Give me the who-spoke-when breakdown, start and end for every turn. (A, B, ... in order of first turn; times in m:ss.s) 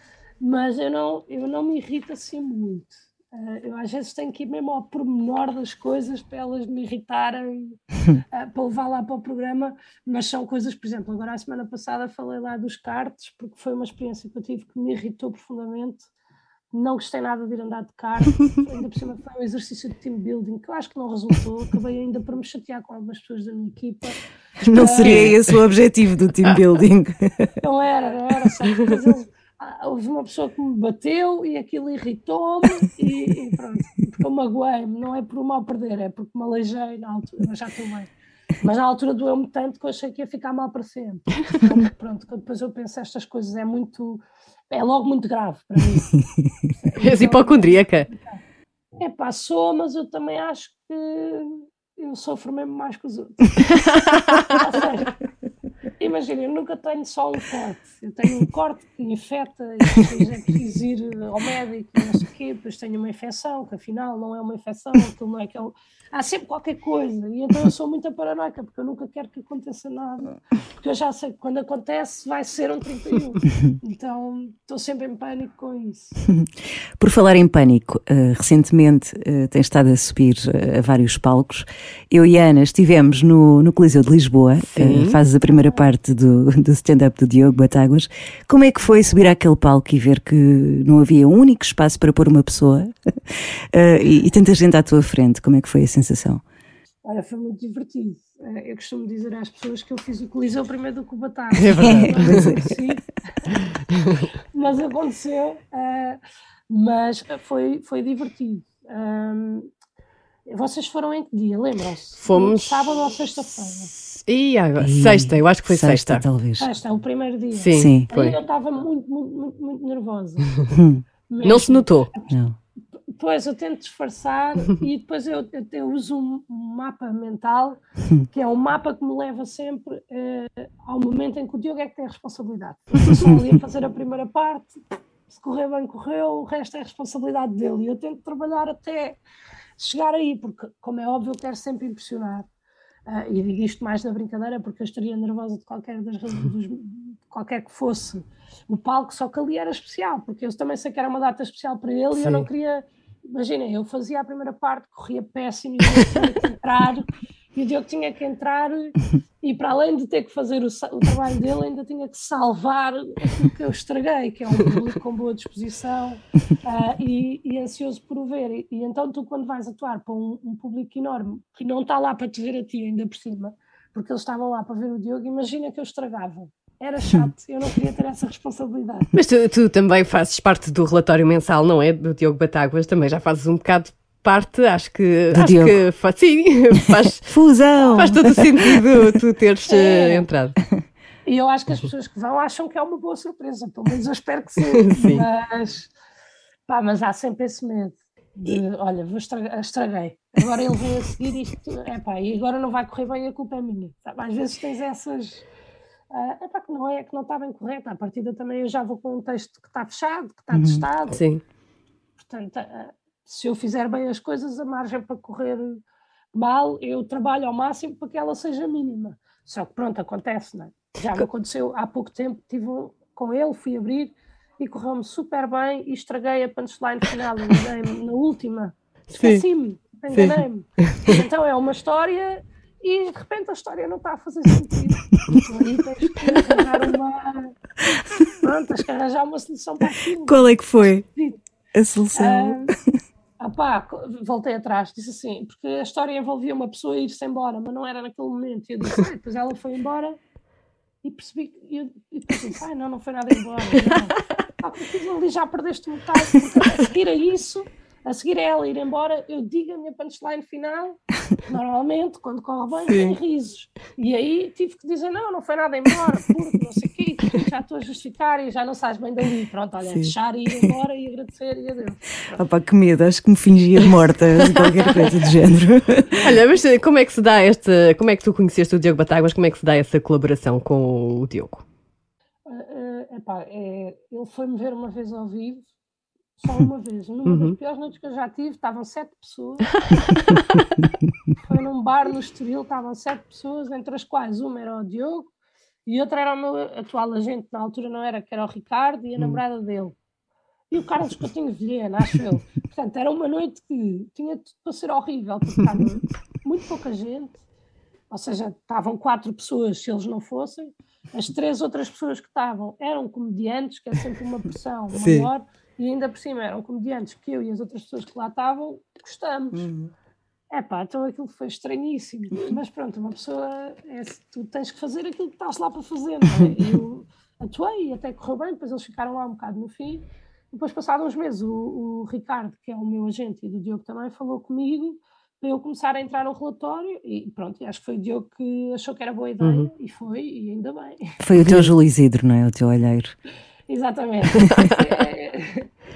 0:00.4-0:07.8 A
0:08.3-0:16.1 A
0:16.7-0:24.2 A
0:24.6-0:27.5 B
0:24.7-0:25.3 A
0:25.0-0:25.4 C
0:27.6-0:46.1 A
0:46.8-0:48.4 A
0:47.0-0:48.1 C
0:49.0-0:53.7 A
0:53.7-0:54.5 C
0:54.5-0:55.1 A
0:56.0-1:16.2 A
1:17.0-1:36.4 B
1:24.6-1:25.2 C
1:25.4-1:25.8 A
1:37.0-1:43.5 A
1:41.5-1:42.7 C
1:44.5-1:49.7 A
1:50.4-1:53.9 A
1:52.2-1:52.9 C
1:54.1-1:56.2 C
1:54.8-1:56.7 B
1:56.6-2:00.5 A
1:57.6-1:58.4 C
1:57.7-1:58.1 B
2:00.7-2:01.0 B
2:01.3-2:02.3 A
2:01.4-2:02.1 C
2:02.3-2:02.6 B
2:03.1-2:07.8 A
2:08.3-2:19.2 A
2:19.8-2:22.4 A
2:23.1-2:59.1 A
2:32.2-2:32.5 C
2:59.1-3:07.3 C
3:05.3-3:05.8 B
3:07.3-3:08.8 B
3:07.8-3:08.0 A
3:07.9-3:10.6 C
3:09.7-3:10.2 A
3:11.2-3:15.9 A
3:14.6-3:15.2 C
3:16.7-3:25.4 A
3:26.1-3:31.2 A
3:30.5-3:30.8 B
3:31.1-3:31.4 C
3:32.2-3:35.8 A
3:36.3-3:57.5 A
3:50.1-3:51.2 C
3:58.4-4:01.4 A
4:00.2-4:01.0 B
4:01.7-4:02.8 B
4:02.1-4:02.7 A
4:03.4-4:10.2 A
4:11.0-4:32.4 A
4:22.9-4:23.2 C
4:32.3-4:36.3 B
4:34.5-4:34.7 C
4:36.2-4:41.6 C
4:42.4-4:45.7 A
4:46.4-4:49.7 A
4:47.2-4:47.5 C
4:49.9-4:50.6 C
4:51.4-4:55.3 A
4:55.8-5:00.0 A
5:00.7-5:07.4 A
5:08.1-5:19.7 A
5:14.9-5:15.3 C
5:19.5-5:19.9 B
5:20.5-5:41.1 A
5:39.4-5:39.7 C
5:41.2-5:43.1 B
5:41.4-5:41.7 C
5:43.7-5:45.7 A
5:44.4-5:44.9 C